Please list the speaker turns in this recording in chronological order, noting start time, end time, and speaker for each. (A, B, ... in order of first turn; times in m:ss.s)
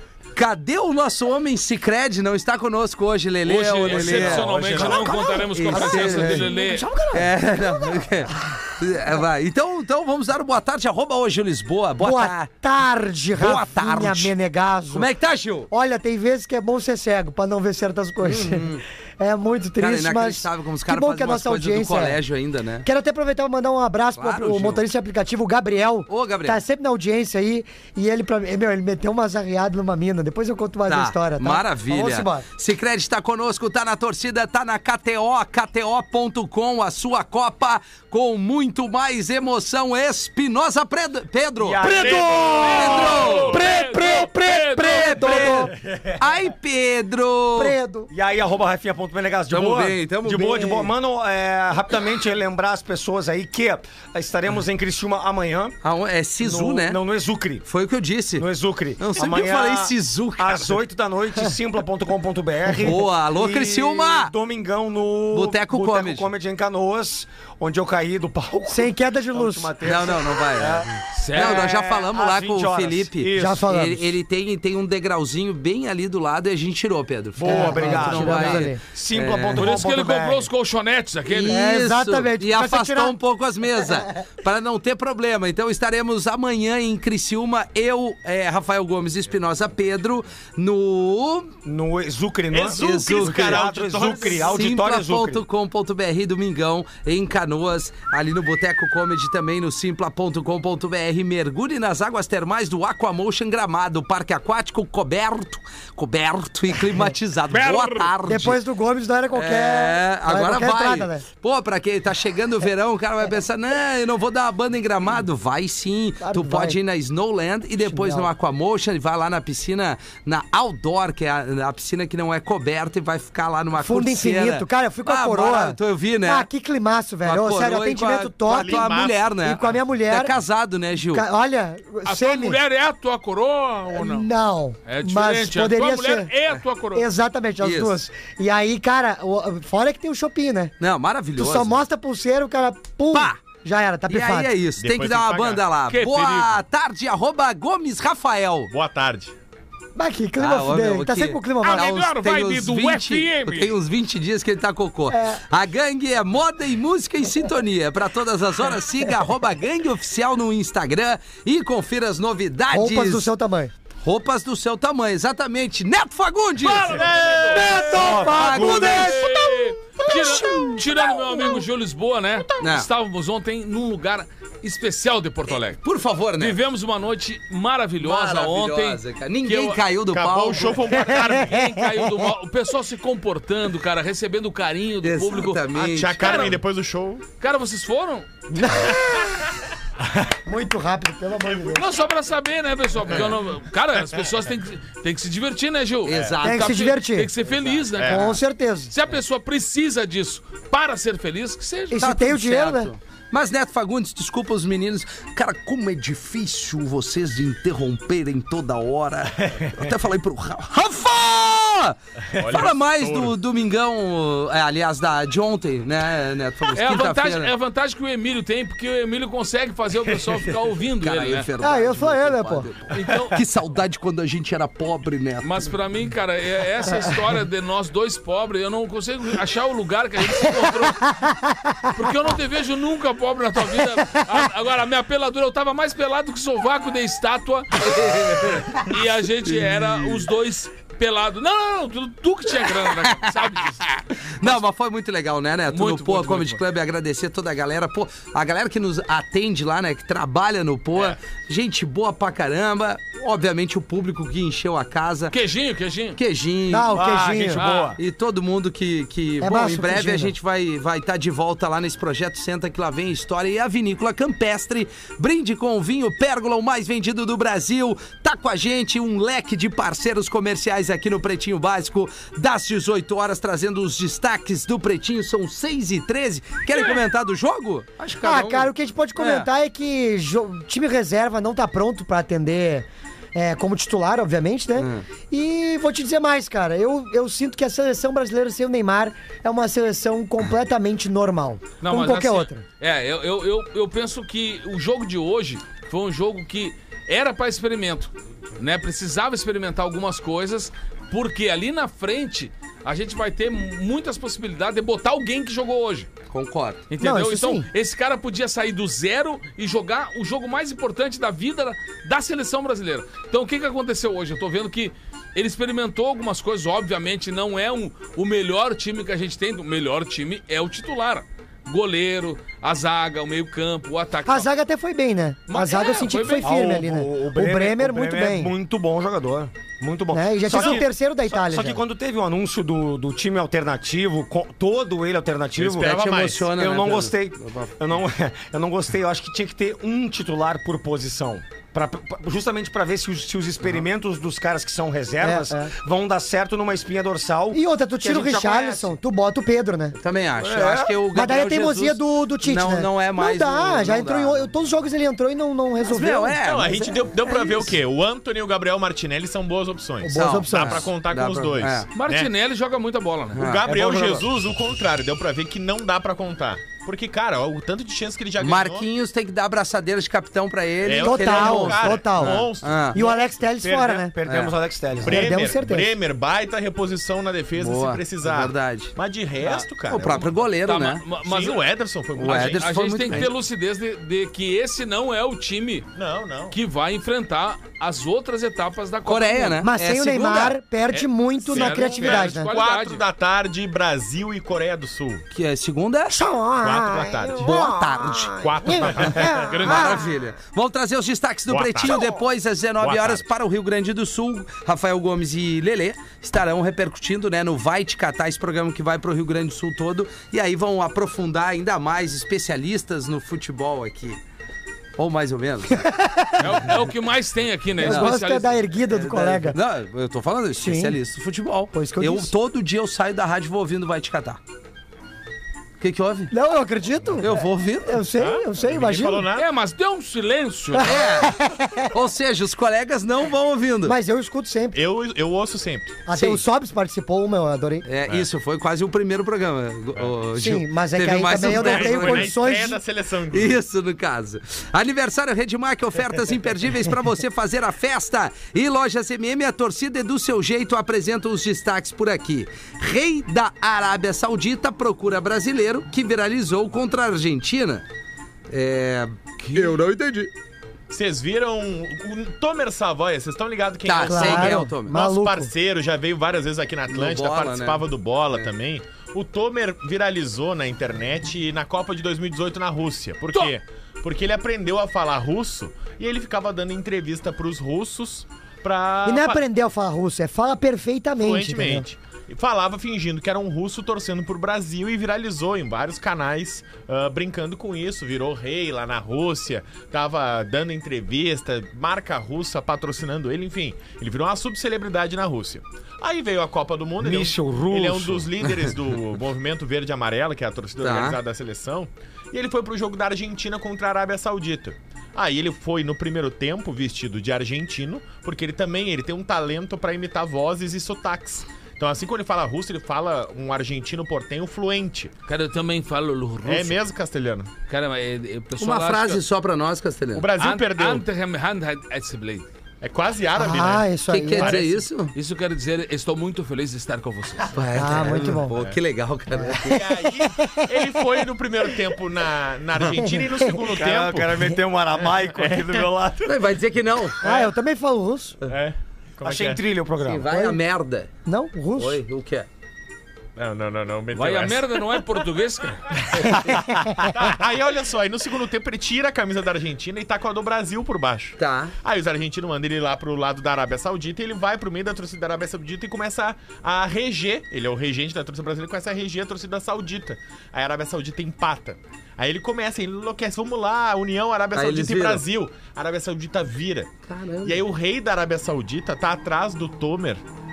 0:00.3-0:04.9 A
0:03.4-0:06.9 B
0:03.9-0:05.4 C
0:05.0-0:08.0 D
0:05.5-0:06.5 A
0:07.1-0:12.5 A
0:12.0-0:15.1 D
0:13.4-0:14.3 A
0:14.9-0:15.7 A
0:15.7-0:22.2 D
0:18.2-0:18.8 A
0:19.8-0:22.9 A
0:22.8-0:32.5 D
0:24.2-0:24.8 A
0:26.1-0:26.6 A
0:30.9-0:42.0 A
0:41.6-0:43.1 C
0:41.8-0:45.7 D
0:42.4-0:45.2 B
0:42.7-0:43.6 A
0:44.8-0:47.8 A
0:45.2-0:46.3 C
0:47.6-0:48.1 D
0:48.1-0:55.8 C
0:49.5-0:50.9 A
0:55.8-0:57.0 A
0:56.4-0:57.6 C
0:57.6-1:00.8 A
0:58.4-1:13.6 C
1:02.8-1:04.3 A
1:05.3-1:06.3 A
1:08.7-1:09.7 D
1:09.8-1:19.7 A
1:11.1-1:11.8 B
1:13.4-1:14.1 D
1:17.4-1:20.5 C
1:17.4-1:18.8 D
1:19.6-1:21.6 B
1:21.3-1:31.6 A
1:21.5-1:23.2 D
1:31.6-1:35.4 C
1:32.5-1:34.7 E
1:32.8-1:33.7 A
1:34.5-1:48.6 A
1:47.5-1:48.1 B
1:48.3-1:51.2 D
1:49.3-2:06.5 A
1:56.2-1:56.8 D
1:57.8-1:58.3 D
2:03.8-2:10.3 D
2:07.2-2:11.2 A
2:08.5-2:09.2 E
2:11.0-2:12.6 D
2:12.0-2:14.3 B
2:13.9-2:16.3 D
2:14.9-2:17.1 B
2:16.9-2:20.7 D
2:17.6-2:18.0 A
2:20.8-2:21.8 A
2:21.4-2:24.5 D
2:23.1-2:23.4 A
2:24.1-2:28.7 A
2:24.8-2:25.7 E
2:25.9-2:26.6 B
2:28.7-2:29.4 E
2:30.0-2:32.1 D
2:30.4-2:43.3 A
2:31.6-2:33.8 B
2:35.1-2:35.4 D
2:42.7-2:43.7 D
2:44.0-2:47.0 A
2:46.6-2:47.7 B
2:47.5-2:50.8 D
2:47.6-2:49.0 C
2:47.8-2:49.2 A
2:48.4-2:55.8 B
2:52.6-2:52.9 A
2:55.7-2:56.6 A
2:56.4-2:59.8 B
2:58.0-3:00.8 A
3:00.1-3:01.7 E
3:01.0-3:05.6 B
3:05.0-3:06.3 A
3:05.7-3:07.2 E
3:06.2-3:06.6 B
3:07.4-3:08.3 B
3:08.5-3:09.4 D
3:10.5-3:11.9 D
3:11.7-3:22.0 B
3:16.0-3:16.9 A
3:16.1-3:16.4 E
3:16.4-3:17.3 D
3:18.0-3:18.4 E
3:18.0-3:18.9 D
3:21.9-3:22.9 D
3:22.0-3:37.5 A
3:32.3-3:33.4 E
3:36.7-3:41.5 B
3:41.0-3:45.7 A
3:41.6-3:42.7 D
3:42.9-3:43.4 B
3:45.4-3:51.1 B
3:51.1-3:51.9 D
3:51.9-4:04.6 B
3:57.8-3:58.9 A
3:59.5-4:00.2 A
4:04.4-4:15.4 A
4:05.7-4:06.6 B
4:15.3-4:16.2 B
4:16.2-4:17.0 A
4:16.7-4:17.6 D
4:16.9-4:18.0 C
4:17.6-4:18.0 B
4:18.0-4:39.5 A
4:19.4-4:20.3 D
4:38.2-4:52.6 D
4:44.8-4:45.0 A
4:51.8-5:06.1 B
5:06.3-5:06.8 A
5:06.9-5:24.5 B
5:07.0-5:07.7 D
5:24.3-5:28.5 D
5:25.5-5:26.5 B
5:26.4-5:47.6 C
5:30.1-5:31.8 D
5:30.5-5:30.8 E
5:35.6-5:38.0 A
5:35.6-5:36.3 E
5:45.2-5:45.7 D
5:47.5-5:50.0 D
5:48.1-5:48.9 A
5:48.1-5:48.7 C
5:50.0-5:54.5 A
5:50.4-5:51.0 C
5:51.1-5:56.4 D
5:55.8-5:57.8 A
5:56.4-6:02.3 E
6:00.0-6:00.9 D
6:00.1-6:01.9 A
6:02.0-6:03.6 B
6:03.3-6:03.6 A
6:03.4-6:08.9 E
6:03.7-6:04.2 C
6:08.4-6:13.0 A
6:10.8-6:13.2 E
6:11.0-6:14.1 D
6:13.6-6:15.3 C
6:14.2-6:15.0 A
6:15.0-6:20.4 E
6:15.0-6:16.0 D
6:17.6-6:19.0 A
6:19.8-6:21.0 A
6:20.7-6:21.6 B
6:21.2-6:23.2 E
6:22.2-6:23.3 A
6:22.2-6:25.9 B
6:26.0-6:26.6 E
6:26.5-6:29.6 B
6:29.0-6:30.6 A
6:29.6-6:32.5 D
6:30.9-6:33.0 B
6:31.5-6:35.2 E
6:35.3-6:36.2 A
6:36.1-6:40.1 D
6:36.6-6:37.5 E
6:37.4-6:54.2 A
6:38.4-6:40.0 E
6:39.5-6:39.8 B
6:41.5-6:42.2 E
6:42.8-6:43.2 E
6:55.0-6:55.9 A
6:55.7-6:56.7 D
6:56.4-6:58.6 B
6:57.8-6:59.6 D
6:57.8-6:58.1 A
6:58.9-7:04.4 A
7:00.6-7:01.0 D
7:01.7-7:02.3 D
7:05.8-7:06.3 A
7:06.3-7:09.3 D
7:07.2-7:08.0 A
7:08.2-7:09.5 E
7:09.4-7:11.0 B
7:10.8-7:11.9 D
7:10.8-7:11.4 A
7:11.9-7:14.0 A
7:13.8-7:14.8 D
7:14.7-7:16.0 E
7:16.1-7:17.8 D
7:16.1-7:16.4 A
7:17.8-7:22.4 A
7:20.4-7:22.8 D
7:21.3-7:23.6 E
7:23.3-7:37.8 A
7:38.5-7:40.3 A
7:39.4-7:39.8 B
7:40.9-7:59.4 E
7:43.8-7:44.9 A
7:44.0-7:45.5 D
7:46.9-7:48.5 A
7:59.0-8:01.9 D
8:01.2-8:35.1 E
8:17.0-8:18.3 C
8:20.8-8:21.2 A
8:35.3-8:36.8 B
8:36.4-8:37.5 E
8:37.7-8:39.2 B
8:38.6-8:40.3 A
8:40.2-8:41.0 E
8:40.4-8:42.5 B
8:42.8-8:44.8 E
8:43.4-8:44.6 D
8:44.1-8:45.1 A
8:45.1-8:47.6 B
8:47.6-8:49.8 A
8:47.8-8:48.6 D
8:48.5-8:48.8 E
8:49.3-8:51.2 D
8:49.6-8:56.4 E
8:52.9-8:53.6 D
8:53.7-8:56.3 C
8:56.2-8:57.2 A
8:57.2-8:57.5 E
8:57.2-8:58.4 D
8:58.5-8:59.6 E
8:59.2-9:00.3 C
9:00.0-9:01.1 A
9:00.3-9:00.6 D
9:01.2-9:02.0 D
9:01.8-9:02.5 A
9:03.4-9:05.2 E
9:04.1-9:05.9 B
9:06.0-9:26.9 E
9:06.2-9:07.2 D
9:11.4-9:11.8 A
9:24.5-9:25.2 A
9:27.1-9:27.6 A
9:27.4-9:30.2 E